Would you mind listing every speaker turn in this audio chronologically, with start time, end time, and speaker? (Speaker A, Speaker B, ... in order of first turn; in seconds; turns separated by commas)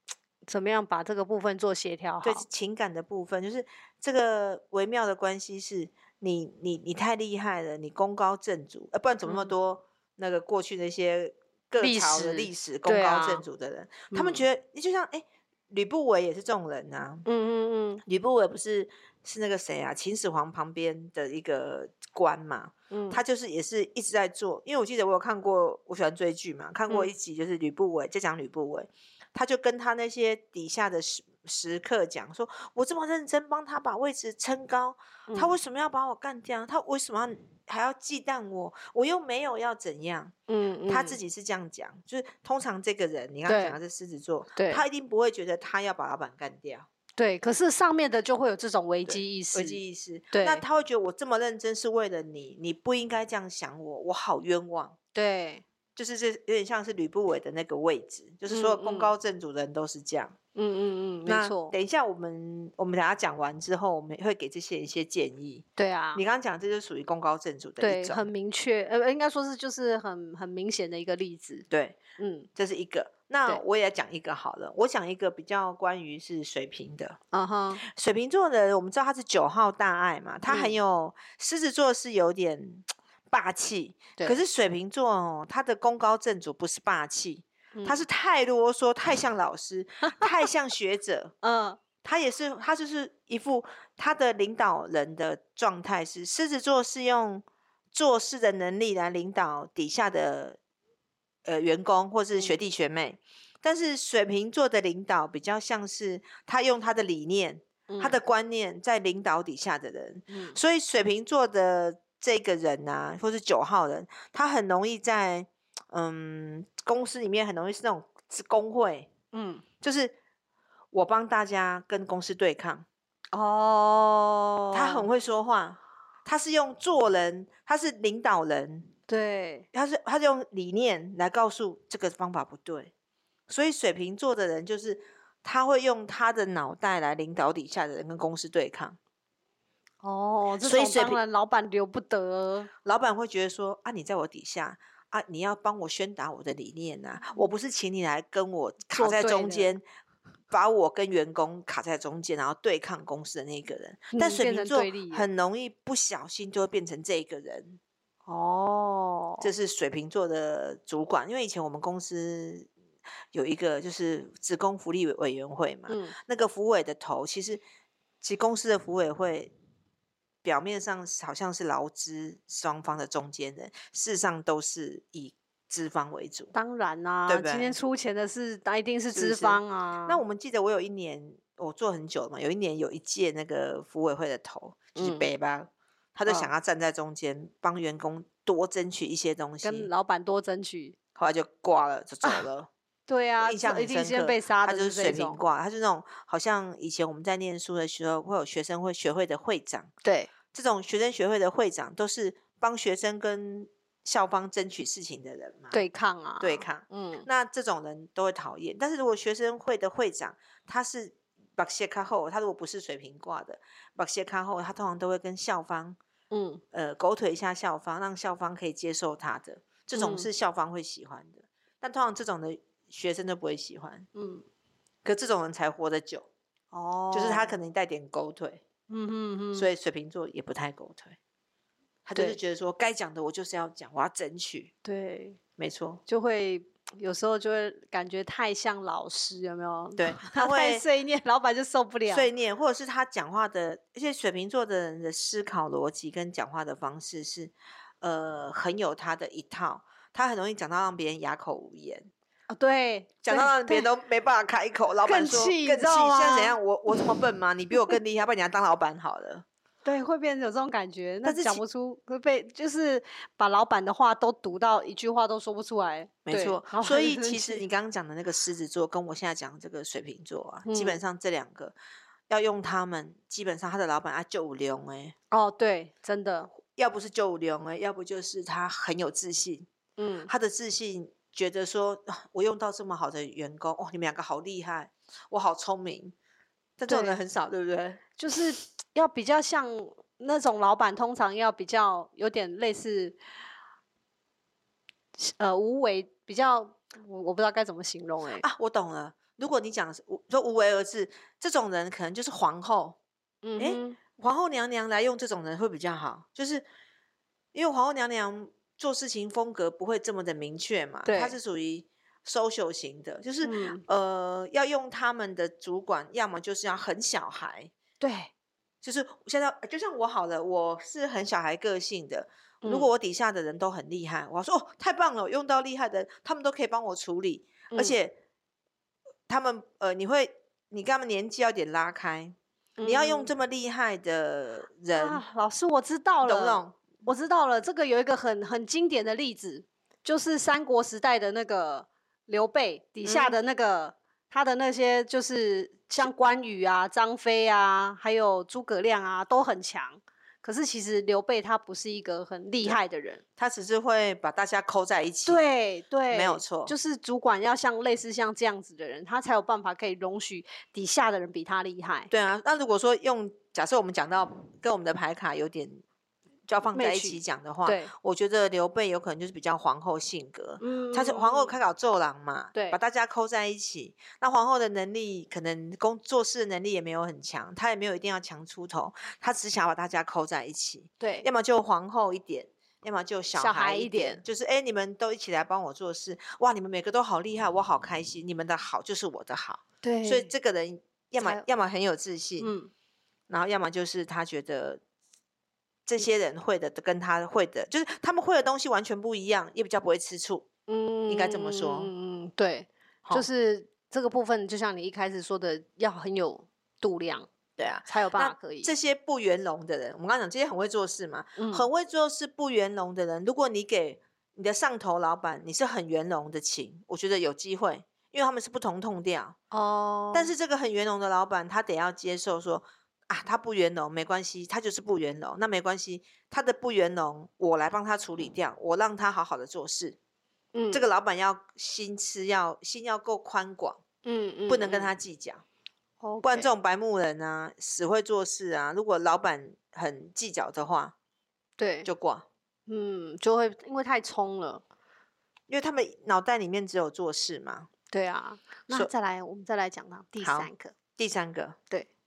Speaker A: 0.5-2.5, Speaker B: 2.2-17.2, Speaker A: 9.2-9.5, Speaker A: 11.8-13.4, Speaker A: 14.1-14.5, Speaker A: 17.3-18.0, Speaker B: 18.1-40.3, Speaker A: 22.9-23.2, Speaker A: 40.5-41.2, Speaker B: 40.9-46.9, Speaker A: 43.5-43.8, Speaker A: 44.6-44.8, Speaker A: 47.2-49.8, Speaker B: 49.1-55.0, Speaker A: 50.3-50.6, Speaker A: 55.1-55.6, Speaker B: 56.0-60.4, Speaker A: 58.5-59.1, Speaker A: 60.5-61.8, Speaker B: 61.3-68.3, Speaker A: 65.8-66.2, Speaker A: 67.8-71.7, Speaker B: 71.7-72.0, Speaker A: 72.2-72.5, Speaker B: 72.6-77.2, Speaker A: 77.3-77.8, Speaker B: 77.8-91.3, Speaker A: 80.5-80.8, Speaker A: 87.8-88.0, Speaker A: 91.4-91.8, Speaker B: 92.0-100.6, Speaker B: 101.5-119.1, Speaker A: 107.9-108.2, Speaker A: 110.3-110.6, Speaker A: 119.3-119.6, Speaker B: 119.8-120.2, Speaker B: 120.9-122.9, Speaker A: 123.3-125.1, Speaker B: 124.7-128.9, Speaker A: 129.1-129.7, Speaker B: 129.7-132.9, Speaker B: 133.5-139.0, Speaker A: 140.0-142.7, Speaker B: 140.6-141.2, Speaker B: 142.8-149.8, Speaker A: 148.9-149.7, Speaker B: 150.5-157.8, Speaker A: 154.1-155.3, Speaker A: 158.3-159.5, Speaker B: 159.4-162.7, Speaker B: 163.3-167.6, Speaker A: 165.9-166.2, Speaker B: 168.2-169.5, Speaker B: 170.4-176.5, Speaker A: 176.5-180.2, Speaker B: 177.3-177.8, Speaker B: 179.2-189.9, Speaker A: 185.0-185.3, Speaker A: 186.3-186.5, Speaker A: 189.6-191.0, Speaker B: 191.2-192.7, Speaker A: 193.1-195.4, Speaker B: 193.4-199.9, Speaker A: 200.0-200.3, Speaker B: 200.5-205.8, Speaker A: 205.7-207.3, Speaker B: 206.4-216.0, Speaker A: 216.3-216.6, Speaker B: 216.7-224.1, Speaker A: 219.9-220.3, Speaker A: 224.2-224.4, Speaker B: 225.0-226.3, Speaker A: 226.7-227.6, Speaker B: 227.1-228.6, Speaker A: 228.9-229.7, Speaker B: 229.5-231.2, Speaker B: 232.1-234.7, Speaker A: 234.8-235.4, Speaker B: 235.6-236.0, Speaker A: 236.1-242.3, Speaker B: 240.0-240.8, Speaker B: 242.1-252.1, Speaker A: 252.5-253.9, Speaker B: 253.2-259.4, Speaker A: 255.0-257.1, Speaker A: 259.9-267.6, Speaker B: 261.2-261.6, Speaker B: 266.3-271.8, Speaker A: 270.6-271.0, Speaker B: 272.3-275.1, Speaker A: 275.3-276.5, Speaker B: 276.7-279.7, Speaker A: 280.0-280.3, Speaker B: 280.3-286.1, Speaker B: 286.8-288.0, Speaker A: 286.9-287.2, Speaker A: 288.2-293.2, Speaker A: 295.2-298.4, Speaker B: 298.4-303.0, Speaker A: 303.4-304.0, Speaker B: 303.6-306.6, Speaker B: 307.5-317.7, Speaker A: 311.1-311.4, Speaker A: 313.4-313.8, Speaker A: 318.0-318.3, Speaker B: 318.8-328.2, Speaker A: 322.6-322.9, Speaker A: 327.7-328.0, Speaker B: 329.3-335.2, Speaker A: 332.8-333.3, Speaker A: 334.9-353.2, Speaker B: 336.2-337.0, Speaker B: 343.0-343.4, Speaker B: 353.4-355.4, Speaker A: 355.3-362.1, Speaker B: 356.1-356.7, Speaker B: 362.1-365.8, Speaker B: 366.5-392.5, Speaker A: 366.7-367.9, Speaker A: 370.6-371.6, Speaker A: 381.0-381.3, Speaker A: 383.4-384.2, Speaker A: 389.8-390.3, Speaker A: 392.4-392.7, Speaker B: 393.3-394.8, Speaker B: 395.9-400.5, Speaker A: 400.7-407.3, Speaker B: 401.1-401.9, Speaker B: 407.6-419.4, Speaker A: 407.9-408.7, Speaker A: 411.4-411.7, Speaker A: 419.5-420.3, Speaker B: 420.1-430.0, Speaker A: 430.5-430.9, Speaker B: 430.7-433.8, Speaker A: 434.0-434.9, Speaker B: 434.5-435.4, Speaker A: 436.0-436.5, Speaker B: 436.2-440.9, Speaker A: 441.6-441.9, Speaker B: 441.8-442.3, Speaker A: 442.7-444.6, Speaker B: 445.5-447.7, Speaker A: 447.9-450.8, Speaker B: 450.2-451.6